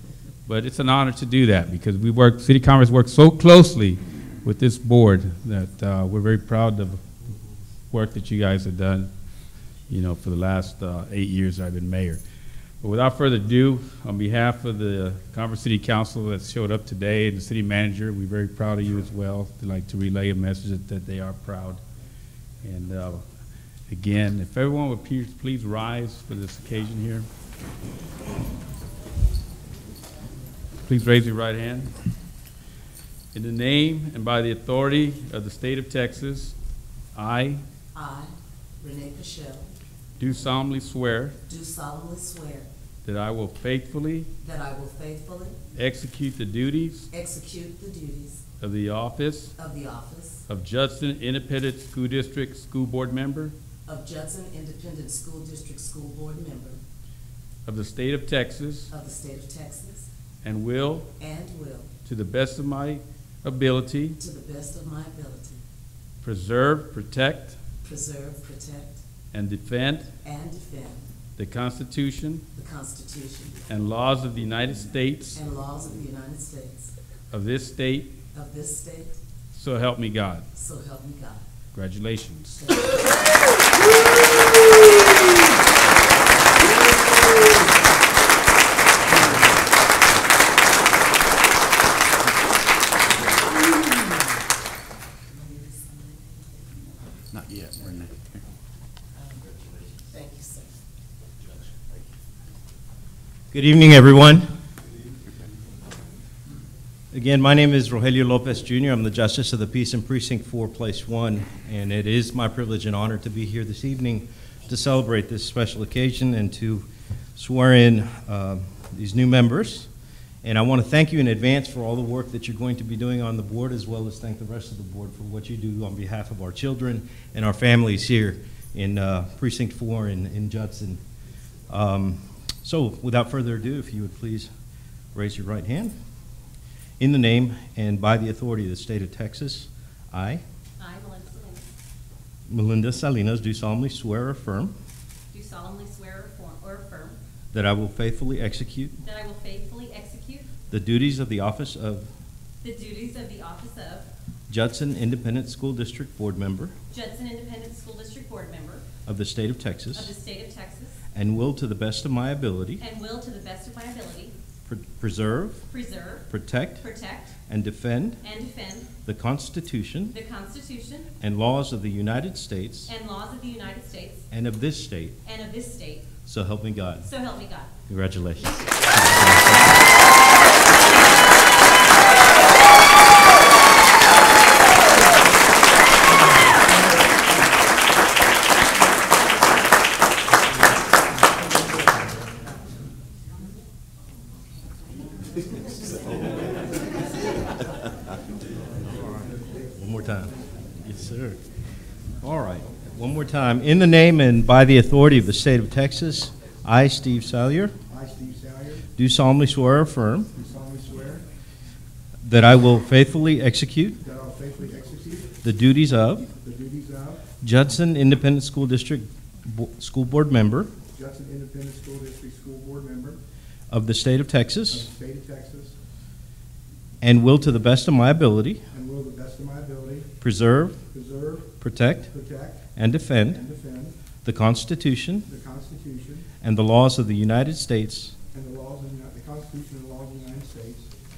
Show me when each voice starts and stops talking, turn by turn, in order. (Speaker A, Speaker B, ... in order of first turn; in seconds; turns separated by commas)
Speaker A: 0.5-7.0, Speaker A: 7.9-9.1, Speaker A: 9.9-12.2, Speaker A: 12.8-21.8, Speaker A: 22.6-23.3, Speaker A: 23.9-27.3, Speaker A: 30.9-31.9, Speaker A: 33.3-36.5, Speaker A: 37.1-37.6, Speaker B: 37.9-39.7, Speaker A: 40.2-41.4, Speaker B: 41.5-42.7, Speaker A: 43.0-44.3, Speaker B: 44.4-45.6, Speaker A: 45.8-47.1, Speaker B: 47.1-48.4, Speaker A: 48.6-49.5, Speaker B: 49.6-50.4, Speaker A: 50.5-53.5, Speaker B: 53.9-56.8, Speaker A: 57.7-58.9, Speaker B: 58.9-60.1, Speaker A: 60.4-61.1, Speaker B: 61.2-61.9, Speaker A: 62.0-64.2, Speaker B: 64.2-65.6, Speaker A: 66.2-67.6, Speaker B: 67.8-69.0, Speaker A: 69.3-70.1, Speaker B: 70.2-71.1, Speaker A: 71.4-72.4, Speaker B: 72.5-73.6, Speaker A: 73.7-75.4, Speaker B: 75.3-76.9, Speaker A: 77.3-78.2, Speaker B: 78.3-79.2, Speaker A: 79.5-80.5, Speaker B: 80.5-81.5, Speaker A: 81.7-82.7, Speaker B: 82.6-85.0, Speaker B: 86.6-87.8, Speaker B: 95.3-96.9, Speaker B: 99.2-100.7, Speaker C: 103.5-104.5, Speaker C: 107.1-119.9, Speaker C: 120.4-131.0, Speaker C: 131.7-134.5, Speaker C: 135.1-135.9, Speaker C: 137.0-140.4, Speaker D: 140.8-141.7, Speaker C: 142.5-144.8, Speaker D: 145.3-147.2, Speaker C: 147.5-149.0, Speaker D: 149.0-150.5, Speaker C: 150.7-152.1, Speaker D: 152.6-154.1, Speaker C: 154.5-156.8, Speaker D: 156.9-158.9, Speaker C: 159.1-160.1, Speaker D: 159.9-161.0, Speaker C: 161.1-162.8, Speaker D: 162.8-164.4, Speaker C: 164.7-165.7, Speaker D: 165.7-166.3, Speaker C: 166.3-166.8, Speaker D: 166.8-167.4, Speaker C: 167.5-168.2, Speaker D: 168.2-168.9, Speaker C: 169.1-170.2, Speaker D: 170.1-171.1, Speaker C: 171.2-172.9, Speaker D: 172.9-174.3, Speaker C: 174.3-175.2, Speaker D: 175.2-176.1, Speaker C: 176.2-177.1, Speaker D: 177.0-177.7, Speaker C: 177.9-179.9, Speaker E: 199.1-199.7, Speaker C: 199.8-201.4, Speaker C: 202.2-207.7, Speaker E: 207.9-208.8, Speaker C: 209.0-210.3, Speaker E: 210.4-211.2, Speaker C: 212.2-214.0, Speaker E: 214.0-215.3, Speaker C: 215.4-216.3, Speaker E: 216.4-217.2, Speaker C: 217.4-220.7, Speaker E: 220.9-223.2, Speaker C: 223.7-224.9, Speaker E: 224.7-225.8, Speaker C: 227.0-228.6, Speaker E: 228.7-230.1, Speaker C: 230.2-230.8, Speaker E: 230.9-231.5, Speaker C: 231.6-232.1, Speaker E: 232.1-232.7, Speaker C: 232.8-233.4, Speaker E: 233.3-233.9, Speaker C: 234.2-235.3, Speaker E: 235.3-236.3, Speaker C: 236.4-238.1, Speaker E: 238.3-240.9